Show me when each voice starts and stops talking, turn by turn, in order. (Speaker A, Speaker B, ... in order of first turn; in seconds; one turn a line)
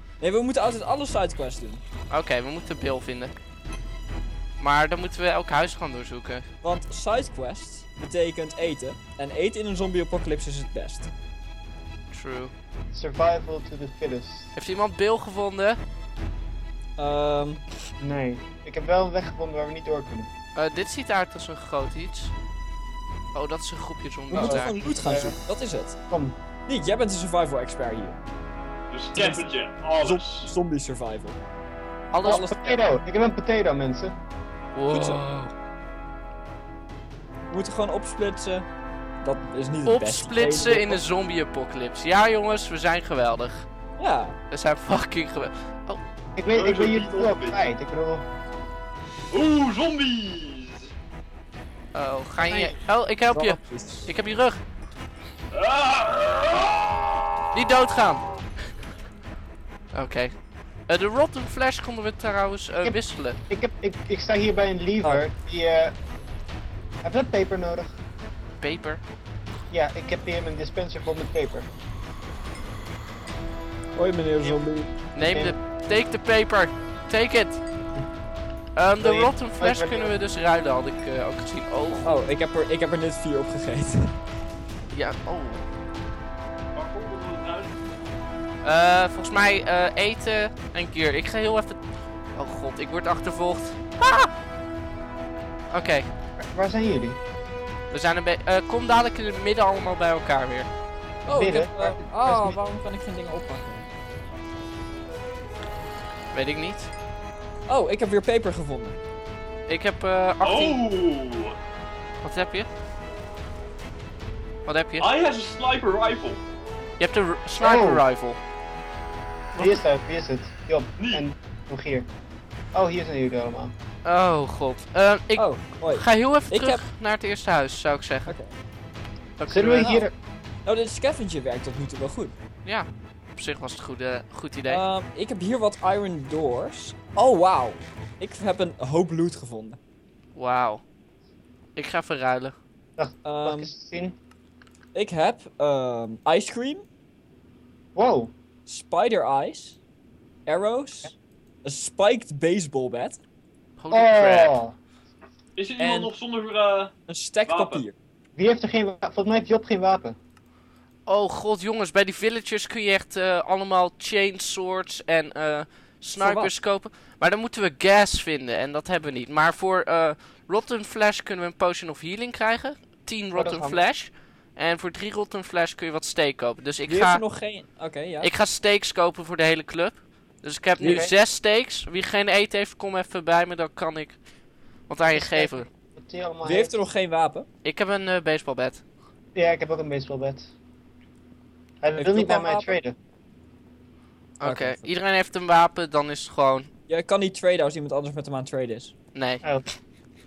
Speaker A: 0.2-1.8
Speaker B: 2.1-3.3
Speaker B: 4.6-6.5
Speaker A: 6.6-11.1
Speaker B: 12.1-12.5
Speaker C: 12.9-14.5
Speaker B: 14.6-15.8
Speaker A: 17.0-17.6
Speaker C: 18.0-20.3
Speaker B: 20.6-22.4
Speaker B: 23.3-24.8
Speaker A: 24.3-26.0
Speaker C: 24.3-25.4
Speaker C: 26.1-26.4
Speaker A: 26.7-28.2
Speaker D: 28.9-30.5
Speaker A: 29.1-29.4
Speaker A: 30.0-31.4
Speaker B: 32.1-32.8
Speaker C: 32.2-34.1
Speaker B: 34.8-35.5
Speaker A: 34.9-35.2
Speaker A: 37.5-38.7
Speaker A: 39.2-41.0
Speaker B: 39.9-43.7
Speaker A: 44.0-44.4
Speaker B: 44.5-46.0
Speaker C: 46.4-48.3
Speaker D: 46.5-47.7
Speaker D: 49.3-50.9
Speaker B: 51.9-54.6
Speaker C: 52.4-52.8
Speaker A: 53.3-54.1
Speaker D: 55.5-57.2
Speaker B: 57.5-58.2
Speaker B: 59.9-60.3
Speaker B: 60.9-63.4
Speaker C: 62.8-66.0
Speaker C: 67.0-68.0
Speaker B: 68.6-69.0
Speaker C: 69.7-71.7
Speaker A: 74.0-74.9
Speaker B: 75.2-77.6
Speaker C: 75.2-75.5
Speaker B: 78.8-82.2
Speaker C: 79.0-80.2
Speaker A: 82.0-84.2
Speaker B: 84.9-85.7
Speaker D: 86.8-87.8
Speaker B: 88.6-94.3
Speaker B: 95.7-96.1
Speaker C: 96.4-97.2
Speaker B: 97.9-100.7
Speaker A: 101.3-103.9
Speaker C: 101.3-102.6
Speaker B: 106.3-106.9
Speaker A: 107.7-109.0
Speaker B: 109.7-110.8
Speaker D: 110.4-111.6
Speaker B: 112.2-112.7
Speaker B: 114.7-115.1
Speaker D: 115.0-116.4
Speaker B: 117.0-118.4
Speaker C: 117.6-118.0
Speaker D: 119.5-119.8
Speaker C: 119.6-122.1
Speaker D: 121.0-121.3
Speaker C: 122.7-123.7
Speaker B: 124.0-128.3
Speaker A: 125.4-126.8
Speaker A: 128.3-128.5
Speaker B: 129.4-130.1
Speaker C: 129.5-130.1
Speaker A: 130.7-132.3
Speaker B: 132.7-134.8
Speaker A: 134.7-139.8
Speaker B: 140.3-140.8
Speaker B: 141.8-142.6
Speaker C: 143.0-144.2
Speaker A: 143.2-143.7
Speaker A: 144.9-146.8
Speaker C: 147.9-148.3
Speaker A: 148.7-149.8
Speaker A: 150.5-151.1
Speaker A: 151.6-153.2
Speaker B: 153.8-154.6
Speaker C: 153.9-154.8
Speaker D: 155.6-156.9
Speaker A: 155.8-156.1
Speaker A: 157.1-157.9
Speaker D: 157.5-157.8
Speaker C: 158.4-160.2
Speaker B: 161.1-177.2
Speaker A: 166.2-166.6
Speaker C: 173.3-173.8
Speaker A: 176.9-178.3
Speaker B: 178.2-185.7
Speaker A: 180.8-181.1
Speaker C: 180.8-181.1
Speaker C: 185.1-186.8
Speaker A: 186.4-187.5
Speaker B: 187.6-188.8
Speaker C: 189.3-190.5
Speaker C: 191.8-193.0
Speaker A: 192.0-192.7
Speaker B: 194.4-196.7
Speaker A: 194.4-194.9
Speaker A: 196.9-198.9
Speaker B: 199.1-199.4